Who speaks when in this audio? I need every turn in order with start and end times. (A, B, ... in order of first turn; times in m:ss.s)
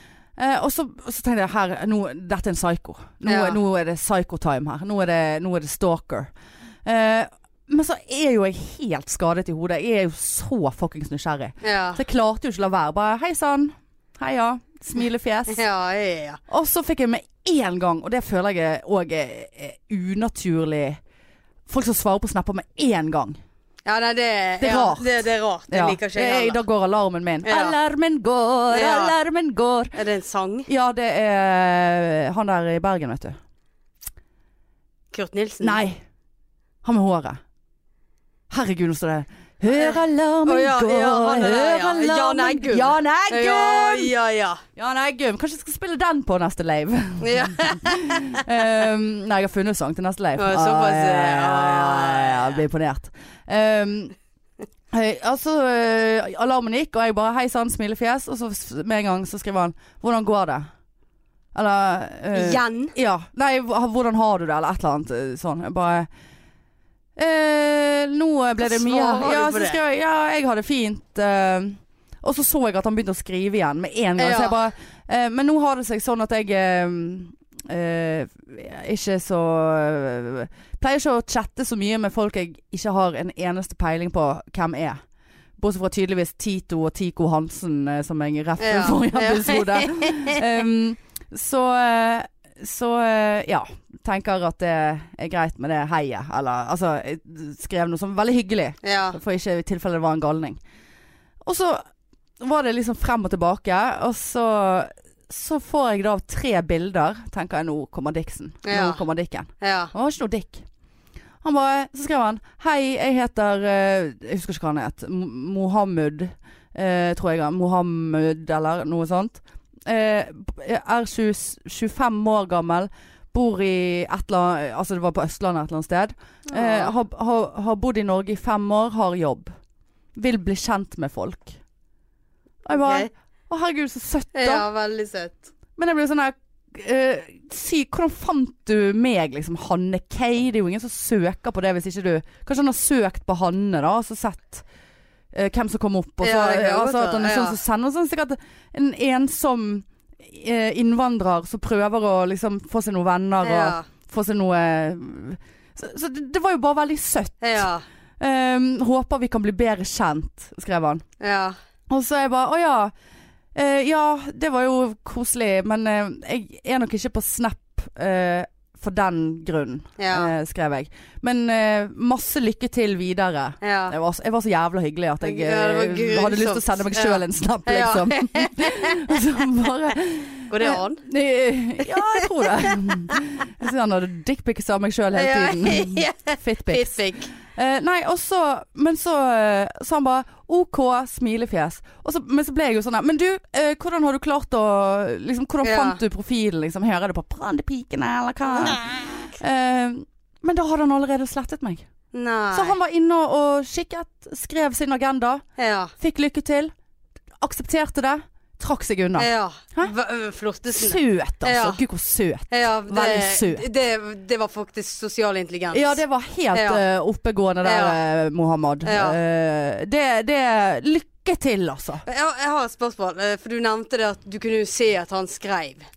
0:00.4-0:06.3 A
0:03.3-0:03.6 B
0:06.8-0:15.6 A
0:11.6-0:12.0 B
0:15.5-0:16.4 B
0:16.5-0:21.0 A
0:21.7-0:23.4 A
0:23.9-0:26.6 B
0:24.6-0:29.9 A
0:27.4-0:27.8 B
0:28.7-0:29.2 B
0:29.9-0:30.7 B
0:30.7-0:33.4 A
0:35.1-0:35.8 B
0:35.6-0:36.0 A
0:36.8-0:37.4 A
0:38.5-0:44.1 A
0:39.7-0:44.6 B
0:44.8-0:54.2 A
0:47.2-0:48.4 B
0:50.4-0:52.6 B
0:54.9-1:00.7 A
1:01.5-1:06.1 A
1:02.3-1:02.9 B
1:07.2-1:25.0 A
1:08.6-1:09.8 B
1:14.2-1:14.6 B
1:25.6-1:40.6 A
1:28.6-1:30.4 B
1:38.8-1:39.2 B
1:41.4-1:41.8 A
1:42.4-1:50.6 A
1:48.6-1:49.0 B
1:49.6-1:49.9 B
1:51.4-2:09.5 A
2:06.5-2:06.9 B
2:10.2-2:11.6 A
2:12.6-2:14.7 A
2:12.7-2:13.1 B
2:14.3-2:15.5 B
2:15.8-2:24.6 A
2:25.3-2:37.7 A
2:26.2-2:27.6 B
2:33.4-2:33.9 B
2:37.4-2:37.8 B
2:38.2-2:41.0 A
2:41.2-2:41.6 B
2:41.9-2:42.9 A
2:43.6-3:21.8 A
2:50.0-2:50.3 B
2:53.6-2:54.0 B
2:55.2-2:59.2 B
3:00.5-3:01.0 B
3:01.9-3:02.2 B
3:05.1-3:07.3 B
3:15.6-3:16.0 B
3:22.1-3:22.8 B
3:22.5-3:25.4 A
3:25.6-3:25.9 B
3:26.0-3:26.7 A
3:27.4-3:29.9 A
3:29.2-3:31.8 B
3:30.7-3:33.7 A
3:32.5-3:36.0 B
3:35.7-3:42.0 A
3:36.5-3:36.8 B
3:37.6-3:38.0 B
3:38.8-3:39.2 B
3:42.0-3:45.9 B